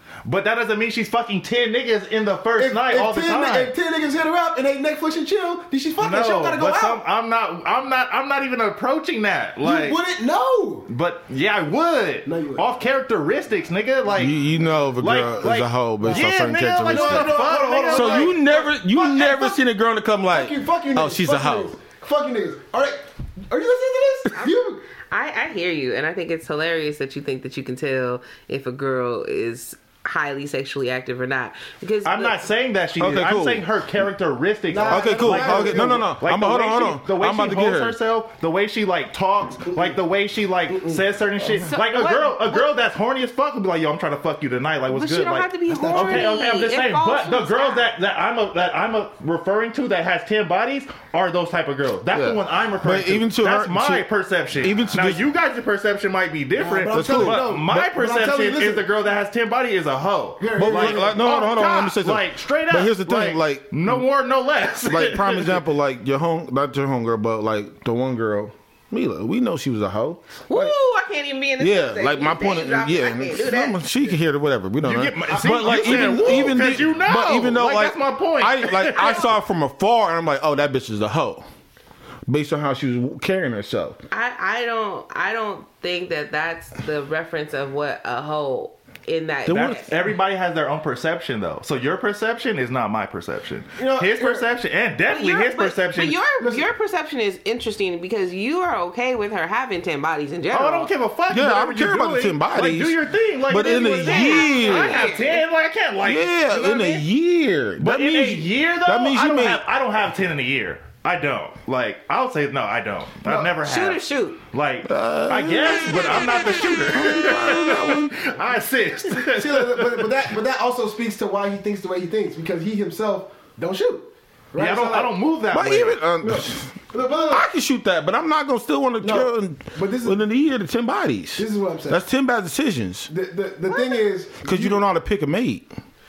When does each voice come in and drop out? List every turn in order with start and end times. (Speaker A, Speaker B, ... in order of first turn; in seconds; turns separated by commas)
Speaker A: 0.2-3.7, Speaker B: 2.6-7.0, Speaker A: 6.0-10.0, Speaker B: 9.6-10.9, Speaker A: 10.9-14.4, Speaker B: 12.2-12.7, Speaker C: 14.1-21.8, Speaker A: 15.0-18.4, Speaker B: 16.0-16.3, Speaker B: 16.9-19.6, Speaker B: 20.3-24.8, Speaker D: 24.4-32.5, Speaker A: 32.0-65.6, Speaker C: 33.0-33.7, Speaker B: 34.7-36.1, Speaker C: 34.9-38.0, Speaker B: 39.7-40.0, Speaker B: 40.7-41.0, Speaker D: 41.5-42.7, Speaker D: 44.9-47.9, Speaker B: 45.7-46.4, Speaker C: 52.1-54.1, Speaker C: 54.6-55.2, Speaker B: 56.6-58.9, Speaker C: 56.9-57.6, Speaker B: 60.4-61.2, Speaker C: 60.6-64.0, Speaker C: 64.8-70.7, Speaker D: 70.5-73.8, Speaker C: 71.6-81.5, Speaker A: 74.8-79.3, Speaker D: 79.0-79.3, Speaker C: 82.3-84.0, Speaker D: 84.1-89.9, Speaker C: 89.5-89.8, Speaker A: 89.5-96.2, Speaker B: 93.8-94.5, Speaker D: 95.1-100.9, Speaker B: 96.4-96.7, Speaker A: 100.5-107.0, Speaker C: 101.3-105.1, Speaker D: 103.7-105.5, Speaker C: 106.0-109.6, Speaker A: 107.8-120.2, Speaker B: 113.2-113.5, Speaker D: 113.6-114.4, Speaker C: 114.8-116.1, Speaker C: 116.9-118.2, Speaker B: 119.1-125.2, Speaker A: 124.6-126.0, Speaker C: 125.5-126.8, Speaker B: 126.2-127.5, Speaker C: 127.3-133.1, Speaker B: 129.0-130.2, Speaker B: 131.4-132.0, Speaker B: 133.1-134.8, Speaker D: 133.7-134.1, Speaker C: 134.4-135.7